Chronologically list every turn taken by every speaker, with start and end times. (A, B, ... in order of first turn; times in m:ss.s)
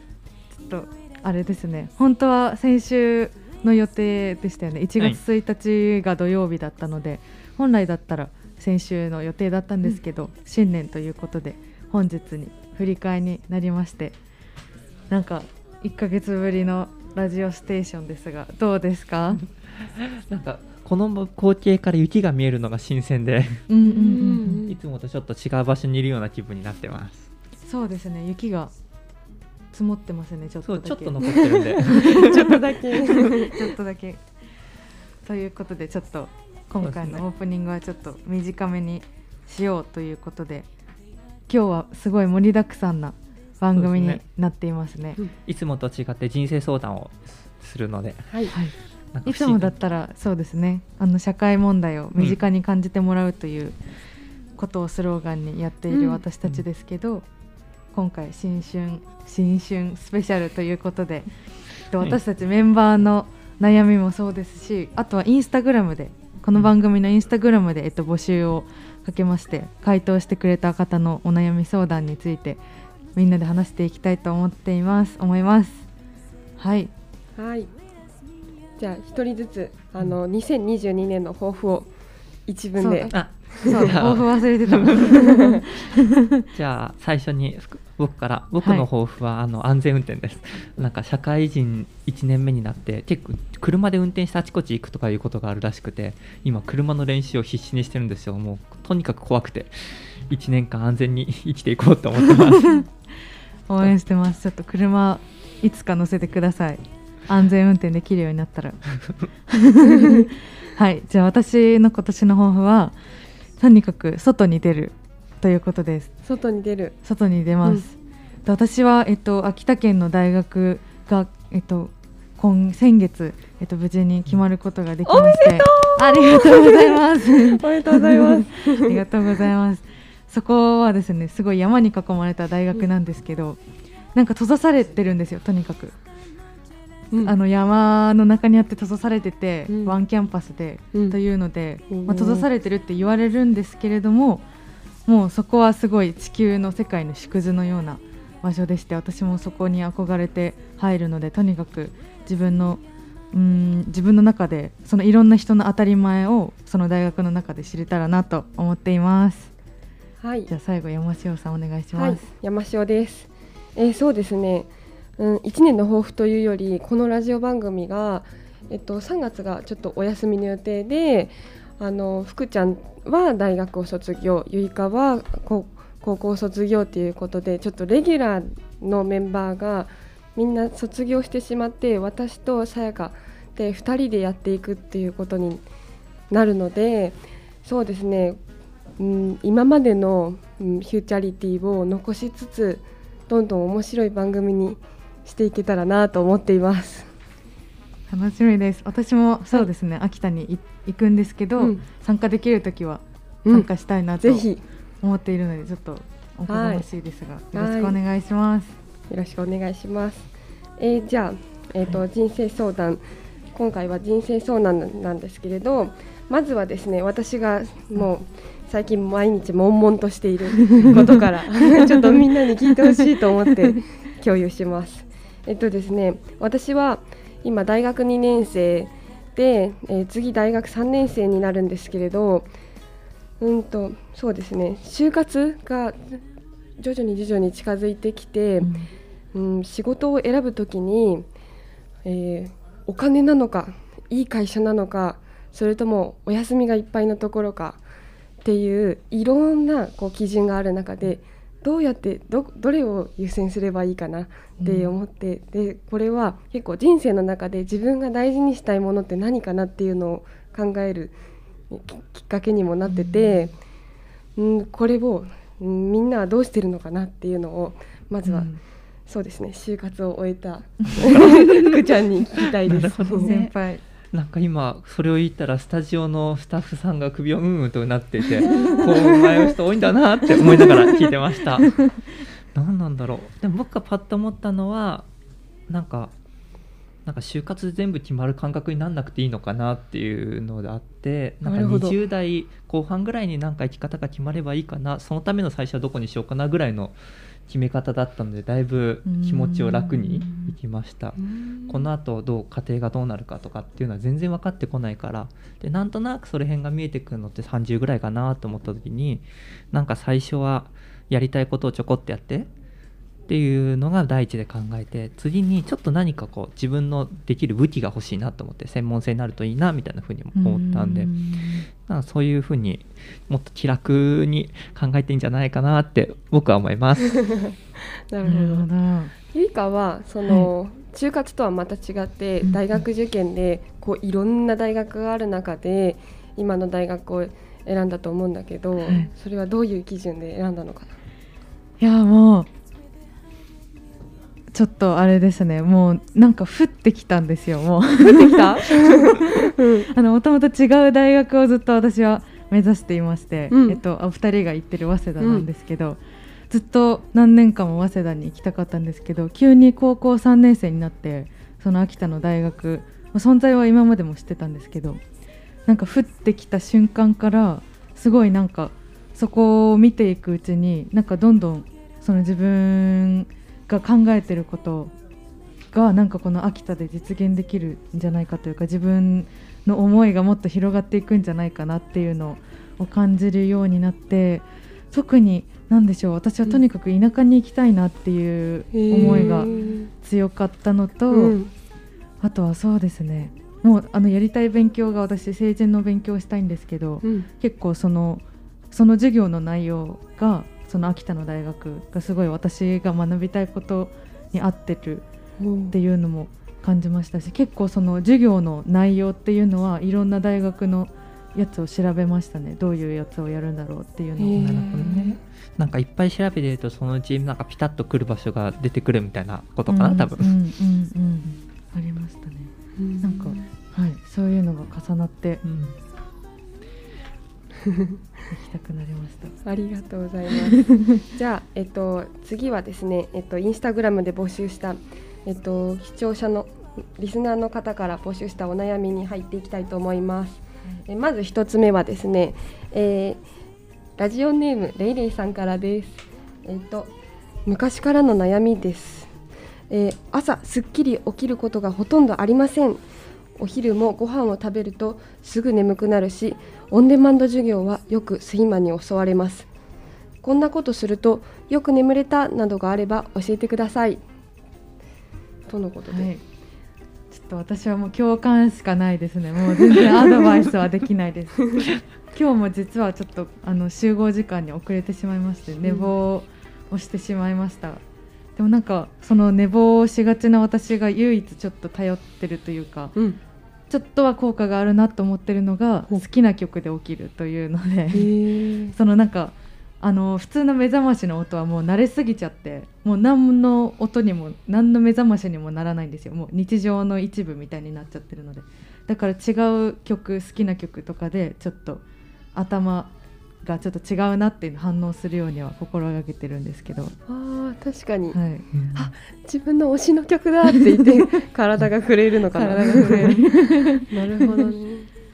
0:00.6-0:14.2 A
0:15.1-0:19.4 A
0:19.8-0:23.6 B
0:23.7-0:24.6 A
0:23.8-0:24.8 C
0:24.2-0:27.3 B
0:27.6-0:28.7 A
0:29.7-0:32.4 A
0:30.7-0:32.6 B
0:31.3-0:33.6 C
0:33.1-0:34.2 A
0:35.2-0:40.7 A
0:36.8-0:37.2 B
0:41.5-0:45.2 A
0:43.7-0:44.2 B
0:45.4-0:48.6 B
0:48.3-0:48.6 C
0:49.1-0:49.7 B
0:49.2-0:53.8 A
0:54.6-0:57.3 A
0:55.9-0:56.2 C
0:57.9-1:01.3 A
1:01.9-1:12.6 A
1:13.2-1:15.8 A
1:16.6-1:16.9 A
1:17.4-1:17.7 C
1:18.8-1:21.9 C
1:22.5-1:23.8 C
1:22.8-1:26.4 A
1:23.1-1:25.4 B
1:26.5-1:42.8 B
1:28.6-1:28.9 A
1:42.2-1:42.9 A
1:43.7-1:48.8 A
1:49.5-1:53.0 A
1:49.9-1:50.2 C
1:53.6-1:56.1 A
1:56.2-1:57.0 C
1:57.0-2:13.6 A
2:05.1-2:09.0 C
2:14.2-2:16.0 A
2:17.2-2:24.4 A
2:19.7-2:20.0 C
2:21.9-2:22.5 C
2:25.1-2:39.5 A
2:40.2-2:40.5 C
2:40.5-2:42.2 A
2:42.0-3:05.6 C
3:06.3-3:08.4 C
3:09.0-3:17.1 C
3:18.1-3:24.5 A
3:21.6-3:21.8 C
3:23.4-3:24.6 C
3:25.0-3:28.7 A
3:26.5-3:26.9 C
3:27.5-3:28.0 C
3:29.1-3:33.0 C
3:33.5-3:52.5 C
3:53.4-3:56.2 C
3:56.8-3:58.7 C
3:58.6-3:58.9 A
3:59.3-4:01.3 C
4:02.0-4:07.8 C
4:08.4-4:21.2 C
4:14.6-4:14.9 A
4:21.7-4:23.6 C
4:22.9-4:23.5 A
4:24.4-4:28.5 C
4:28.2-4:28.6 A
4:29.1-4:33.5 C
4:31.0-4:31.8 B
4:32.6-4:33.5 B
4:33.2-4:33.8 A
4:34.1-4:45.1 B
4:38.4-4:39.0 A
4:38.5-4:39.5 C
4:45.7-4:46.1 B
4:47.1-4:57.0 B
4:51.4-4:52.0 C
4:57.5-5:01.2 B
4:59.1-5:00.6 A
5:01.2-5:01.9 C
5:01.7-5:12.5 B
5:13.3-5:21.1 B
5:20.4-5:21.7 A
5:21.9-5:27.2 B
5:27.0-5:28.7 C
5:28.2-5:29.1 A
5:29.3-5:41.0 C
5:30.2-5:30.5 A
5:32.4-5:32.8 A
5:38.8-5:39.1 A
5:41.8-5:42.5 A
5:44.5-5:49.1 A
5:48.0-5:49.9 C
5:49.9-6:05.0 A
5:53.5-5:53.8 C
5:55.2-5:55.5 C
6:05.7-6:14.9 A
6:15.7-6:31.4 A
6:28.7-6:29.9 C
6:29.0-6:29.4 B
6:31.1-6:31.5 C
6:32.2-6:45.0 A
6:37.0-6:37.3 C
6:45.4-6:45.8 C
6:45.7-6:54.7 A
6:54.2-6:55.2 C
6:54.4-7:00.3 B
6:59.7-7:05.4 A
7:02.8-7:03.5 C
7:05.4-7:05.8 B
7:08.3-7:09.4 A
7:09.4-7:23.2 C
7:10.5-7:10.8 A
7:24.0-7:26.9 C
7:27.5-7:29.1 C
7:29.7-7:32.8 C
7:33.4-7:39.5 C
7:40.2-7:44.0 C
7:45.5-7:46.1 C
7:45.9-7:46.2 A
7:47.1-7:57.8 A
7:55.6-7:55.9 C
7:58.4-8:03.0 A
8:03.7-8:08.1 A
8:07.9-8:08.8 C
8:08.7-8:21.8 A
8:22.4-8:26.9 A
8:27.1-8:28.2 C
8:28.1-8:28.6 A
8:28.5-8:28.9 B
8:28.8-8:34.9 C
8:32.4-8:34.5 A